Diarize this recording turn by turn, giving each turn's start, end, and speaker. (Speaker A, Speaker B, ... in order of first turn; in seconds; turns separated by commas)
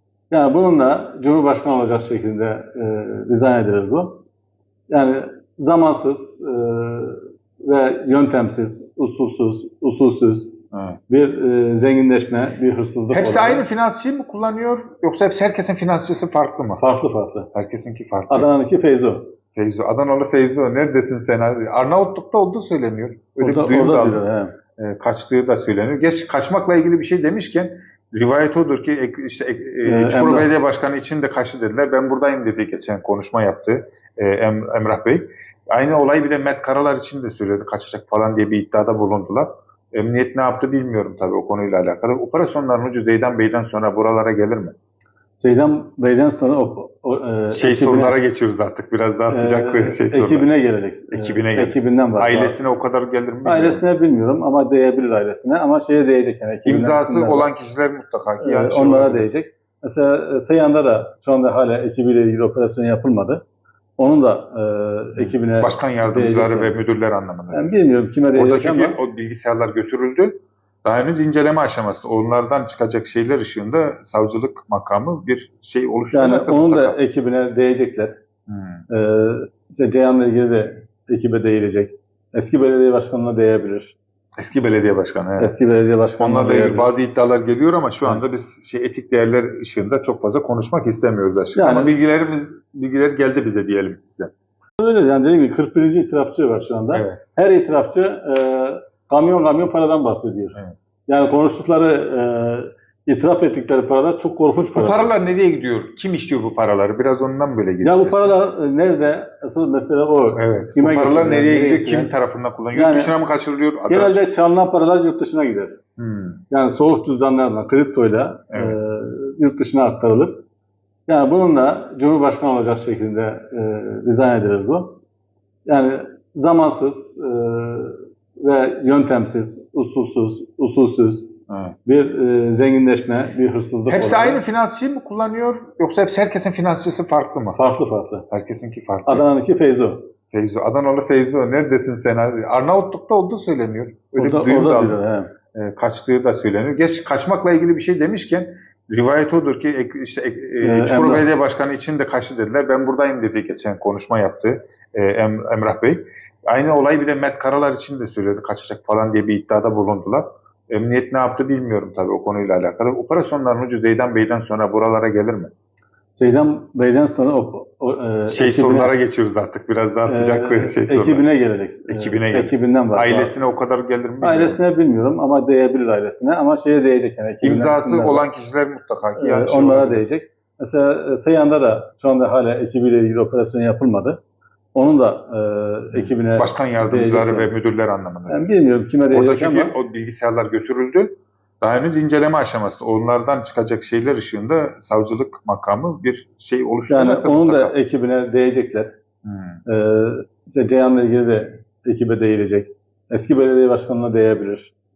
Speaker A: 0.3-4.2, Speaker A: 4.9-10.6, Speaker B: 10.7-11.0, Speaker A: 11.1-13.7, Speaker B: 13.1-16.8, Speaker A: 16.8-17.5, Speaker B: 17.5-18.5, Speaker A: 18.3-19.3, Speaker B: 19.5-24.2, Speaker A: 23.4-24.6, Speaker B: 24.8-44.7, Speaker A: 29.8-30.5, Speaker A: 45.4-48.1, Speaker B: 47.5-50.5, Speaker A: 49.3-52.5, Speaker B: 51.1-53.8, Speaker A: 53.4-57.5, Speaker B: 56.6-59.3, Speaker A: 58.4-63.4, Speaker A: 64.0-66.7, Speaker B: 65.2-67.8, Speaker A: 67.5-69.0, Speaker B: 68.3-77.0, Speaker A: 76.1-78.2, Speaker B: 78.5-78.8, Speaker A: 78.9-84.0, Speaker B: 84.4-85.5, Speaker A: 85.4-86.9, Speaker B: 86.2-94.3, Speaker A: 91.5-91.9, Speaker A: 94.8-105.1, Speaker B: 96.9-97.2, Speaker B: 104.7-108.4, Speaker A: 107.8-112.1, Speaker B: 110.3-114.2, Speaker A: 112.7-113.1, Speaker A: 113.9-115.8, Speaker B: 116.0-116.4, Speaker A: 116.5-120.4, Speaker B: 118.5-118.8, Speaker A: 121.1-125.0, Speaker A: 125.7-131.3, Speaker B: 131.5-131.8, Speaker A: 131.8-134.4, Speaker B: 133.9-137.6, Speaker A: 137.6-138.2, Speaker B: 138.3-139.3, Speaker A: 139.1-140.1, Speaker B: 140.3-145.0, Speaker A: 144.2-145.3, Speaker B: 145.5-165.5, Speaker A: 150.6-151.3, Speaker A: 166.2-168.9, Speaker B: 168.3-171.2, Speaker A: 170.1-173.3, Speaker B: 171.9-174.6, Speaker A: 174.2-178.2, Speaker B: 177.4-180.0, Speaker A: 179.2-184.2, Speaker A: 184.8-187.5, Speaker B: 185.9-188.5, Speaker A: 188.3-189.7, Speaker B: 189.1-197.7, Speaker A: 196.9-198.9, Speaker B: 199.2-199.6, Speaker A: 199.7-204.7